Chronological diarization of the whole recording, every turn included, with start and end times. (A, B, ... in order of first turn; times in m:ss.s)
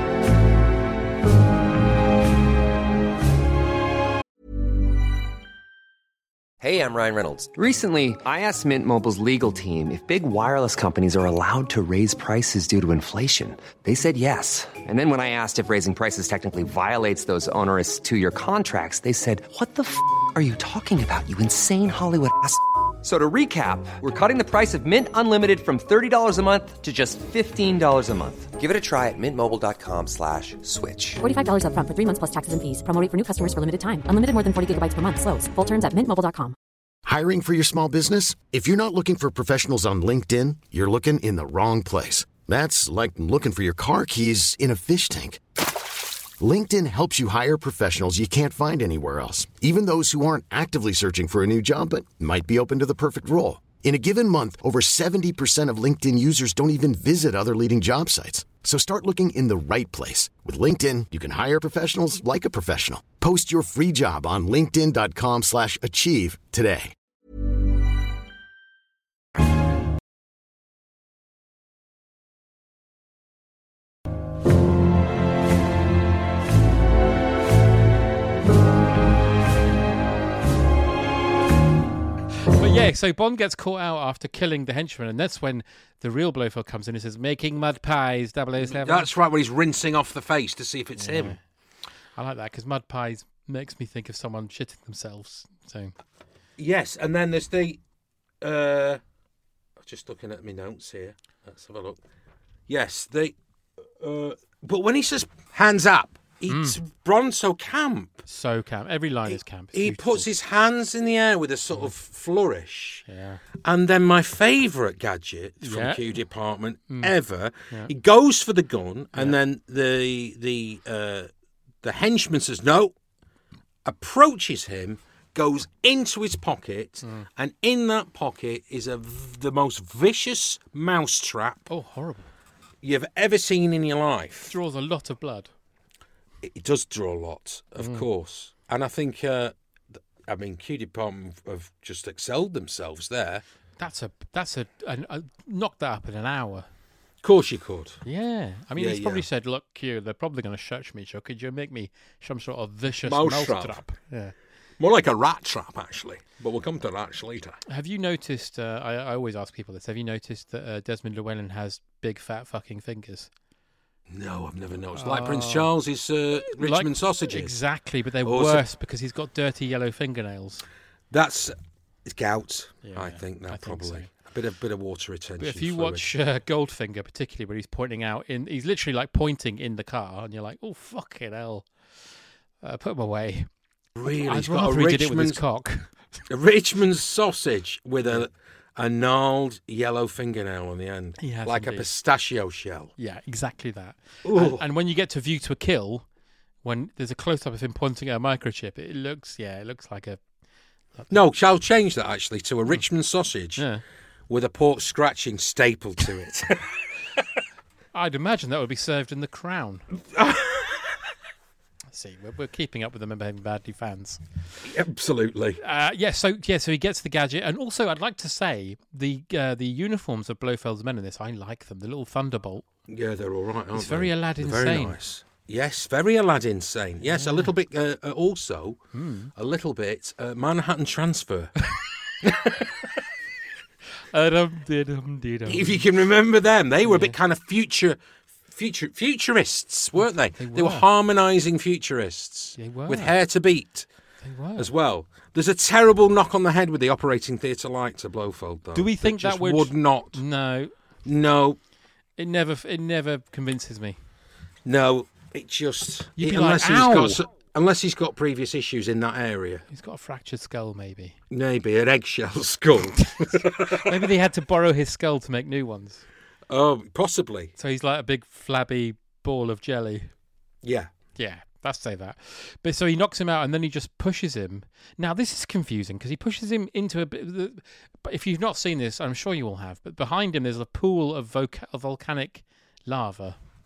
0:06.6-0:31.2 A
0:31.2-0:36.6 B
0:37.0-0:45.6 C
0:46.4-1:06.9 C
1:22.5-1:29.1 D
1:28.6-1:31.4 E
1:31.0-1:31.4 D
1:32.2-1:36.0 D
1:36.6-1:37.8 E
1:38.4-1:39.0 E
1:39.8-1:42.0 E
1:42.7-1:43.4 E
1:44.0-1:48.3 E
1:46.5-1:46.8 D
1:48.3-1:50.3 D
1:49.7-1:53.0 E
1:53.1-1:53.4 D
1:53.6-2:01.3 E
1:55.6-1:56.1 D
1:56.9-1:57.1 D
2:01.8-2:03.0 E
2:03.8-2:11.7 E
2:11.7-2:12.3 D
2:12.8-2:14.6 E
2:14.5-2:15.5 D
2:16.4-2:23.4 E
2:17.8-2:18.1 D
2:23.8-2:26.7 D
2:27.2-2:28.0 E
2:28.0-2:34.3 D
2:28.8-2:29.2 E
2:32.9-2:33.8 E
2:34.8-2:37.6 E
2:37.7-2:43.3 D
2:44.1-2:47.5 E
2:44.9-2:45.7 D
2:46.5-2:50.6 D
2:48.2-2:48.6 E
2:51.1-2:56.1 E
2:52.8-2:54.1 D
2:55.4-3:01.7 D
3:02.6-3:03.5 D
3:04.0-3:05.4 E
3:04.0-3:05.9 D
3:06.3-3:12.9 E
3:11.2-3:11.9 D
3:13.0-3:16.1 D
3:14.2-3:14.6 E
3:16.6-3:20.2 D
3:21.0-3:21.2 D
3:21.1-3:23.6 E
3:23.6-3:23.8 D
3:24.3-3:27.2 E
3:27.9-3:29.9 D
3:30.1-3:30.9 E
3:31.9-3:34.2 D
3:34.6-3:35.6 E
3:35.6-3:42.6 D
3:42.9-3:48.8 E
3:43.7-3:45.0 D
3:47.1-3:47.5 D
3:48.9-3:49.3 D
3:49.4-3:51.5 E
3:52.2-3:52.9 E
3:54.1-3:55.8 D
3:55.5-4:03.9 E
3:56.8-3:57.2 D
4:00.0-4:00.9 D
4:02.6-4:03.2 D
4:04.2-4:04.7 D
4:04.6-4:10.2 E
4:08.7-4:10.7 D
4:11.0-4:11.6 E
4:12.2-4:14.0 D
4:14.6-4:19.6 E
4:16.2-4:17.2 D
4:19.7-4:21.2 D
4:21.3-4:24.1 E
4:23.7-4:26.0 D
4:26.5-4:27.5 E
4:27.6-4:30.1 D
4:30.6-4:30.9 E
4:31.2-4:43.4 D